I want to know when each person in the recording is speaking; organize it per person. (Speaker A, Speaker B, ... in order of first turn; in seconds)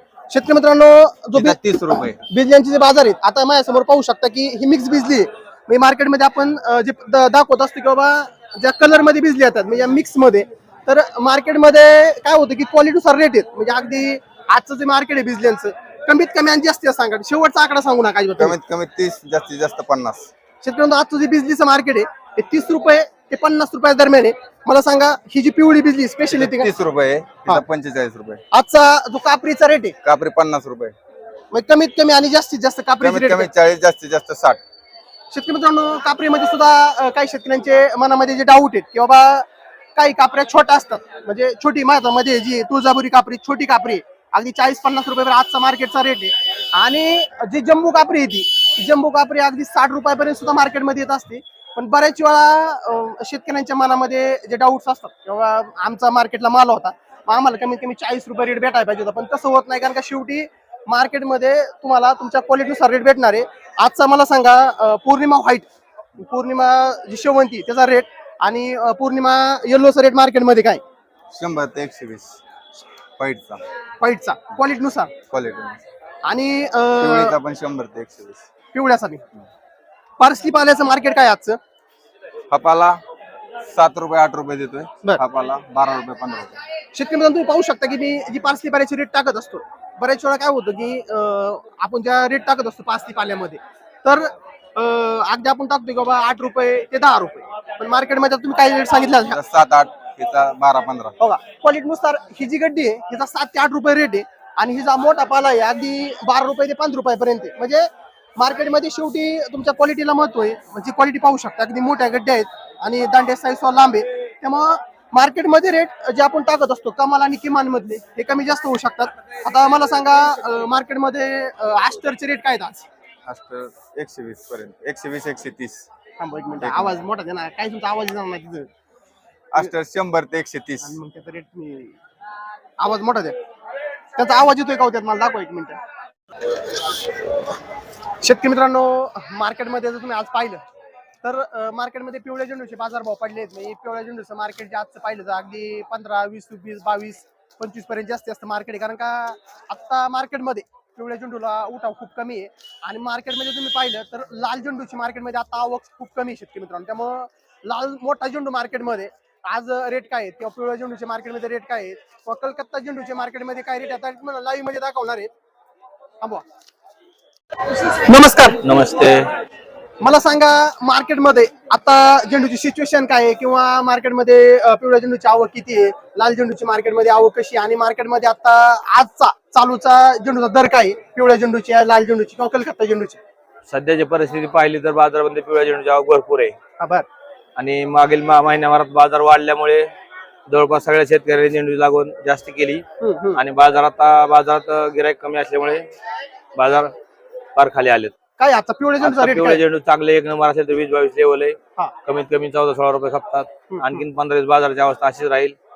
Speaker A: 0.3-18.6, 20.6-26.7, 28.5-29.9, 31.5-33.5, 35.3-65.7, 66.2-70.8, 74.0-75.1, 76.2-77.3, 78.7-79.2, 80.2-81.6, 86.9-99.4, 101.2-122.9, 126.2-128.7, 130.8-131.9, 132.8-133.3, 134.2-135.8, 138.2-140.6, 141.2-165.3, 167.8-168.6, 170.0-183.2, 186.8-187.1, 193.0-193.4, 198.4-199.6, 203.7-204.0
Speaker B: 1.3-2.2, 18.4-20.3, 26.3-28.4, 30.0-30.9, 33.0-34.6, 71.3-72.4, 73.2-73.6, 75.3-75.8, 77.0-78.5, 82.5-83.0, 83.7-86.6, 99.3-101.1, 123.3-125.9, 126.6-126.9, 129.5-130.9
Speaker C: 168.6-169.3, 183.7-186.6, 187.6-189.9, 190.5-192.8, 193.3-195.9, 196.6-196.9, 197.5-198.1, 199.0-205.6